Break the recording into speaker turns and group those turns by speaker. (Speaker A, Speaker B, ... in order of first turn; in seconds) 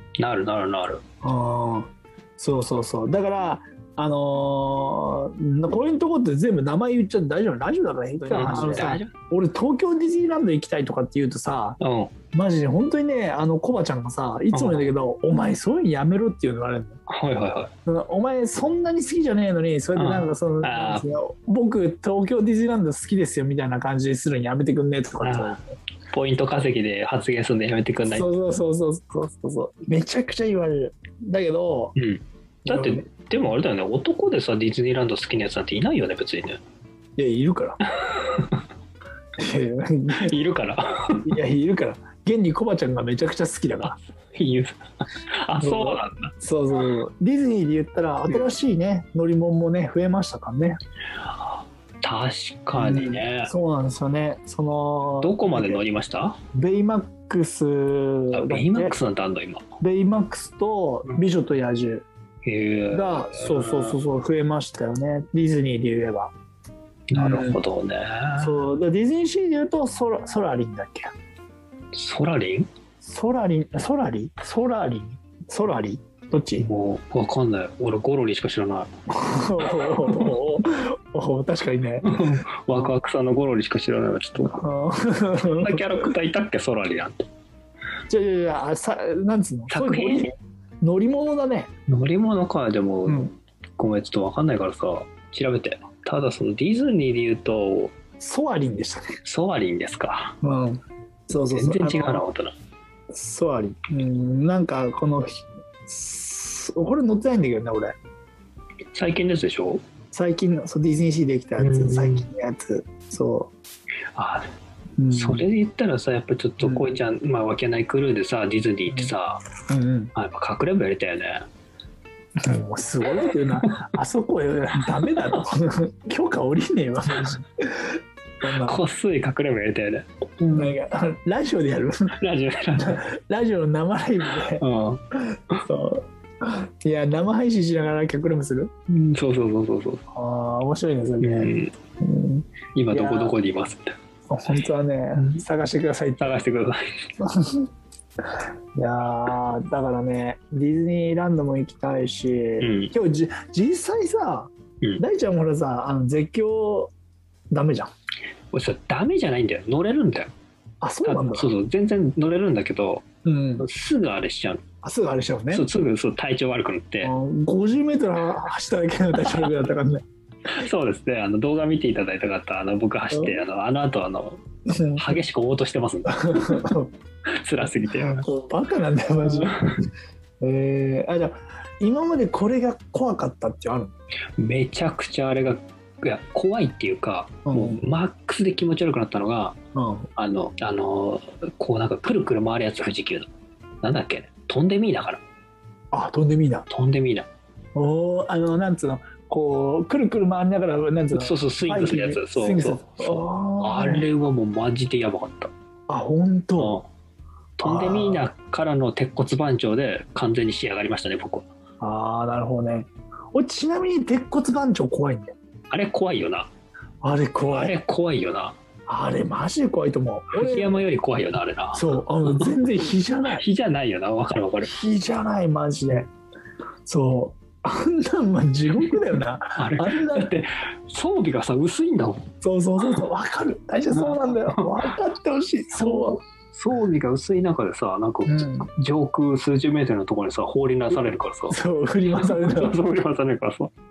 Speaker A: 0.2-1.0, 8.3-9.1, 11.8-12.1, 14.5-14.9, 17.1-17.7, 20.0-21.1, 25.2-25.6, 26.1-28.3, 32.0-36.6, 37.9-38.6, 40.1-41.3, 43.8-44.8, 45.3-46.3, 51.3-53.5, 55.2-56.4, 58.3-59.6, 62.5-64.0, 67.1-68.6, 71.9-72.7, 76.6-78.9, 79.6-80.3, 82.0-84.7, 85.6-87.2, 89.7-90.3, 91.9-97.9, 99.2-100.4, 101.5-102.5, 108.9-109.8, 111.6-112.3, 114.2-114.5, 115.1-119.5, 120.2-121.4, 123.2-123.8, 125.1-125.4, 128.5-130.1, 132.2-133.1, 134.6-135.6, 138.9-140.1, 141.2-141.7, 142.7-143.9, 145.2-145.4, 146.2-146.8, 152.6-152.9, 158.5-160.3, 161.0-163.1, 163.6-164.6, 165.5-167.1, 169.2-169.5, 170.5-174.4, 175.0-176.7, 177.4-178.3, 179.2-179.8, 184.4-189.6, 190.2-193.3, 193.8-195.2, 196.7-197.3, 201.1-205.5, 206.6-206.9, 207.6-211.5, 215.7-216.5, 217.5-218.6, 220.3-222.6, 223.3-224.7, 229.6-232.3, 233.9-234.7, 235.7-241.6, 242.2-243.7
Speaker B: 1.2-11.8, 12.3-17.0, 17.9-25.7, 28.1-31.9, 32.7-33.0, 37.2-37.8, 39.4-40.4, 41.2-43.9, 45.6-50.8, 52.8-55.8, 56.5-59.0, 59.8-62.0, 62.9-66.3, 67.1-67.6, 68.4-71.1, 73.0-76.7, 79.1-82.2, 84.4-86.1, 88.1-91.7, 98.2-99.1, 100.4-102.3, 103.1-108.0, 110.1-113.5, 115.0-115.5, 116.6-116.9, 118.9-119.1, 119.7-120.1, 122.4-128.8, 130.4-132.2, 132.8-138.7, 140.1-143.4, 144.3-146.4, 147.2-147.7, 148.8-156.9, 157.5-157.9, 160.8-161.5, 163.2-163.7, 164.8-165.7, 167.0-170.0, 173.1-173.4, 174.7-175.2, 176.1-176.9, 177.9-179.6, 180.4-183.9, 187.5-187.8, 189.8-190.1, 195.9-196.7, 197.8-204.1, 205.9-206.8, 207.6-208.3, 211.8-215.3, 217.0-217.8, 218.9-220.8, 221.7-223.4, 224.6-226.1, 226.9-230.3, 232.4-236.2, 238.3-238.7, 241.5-242.8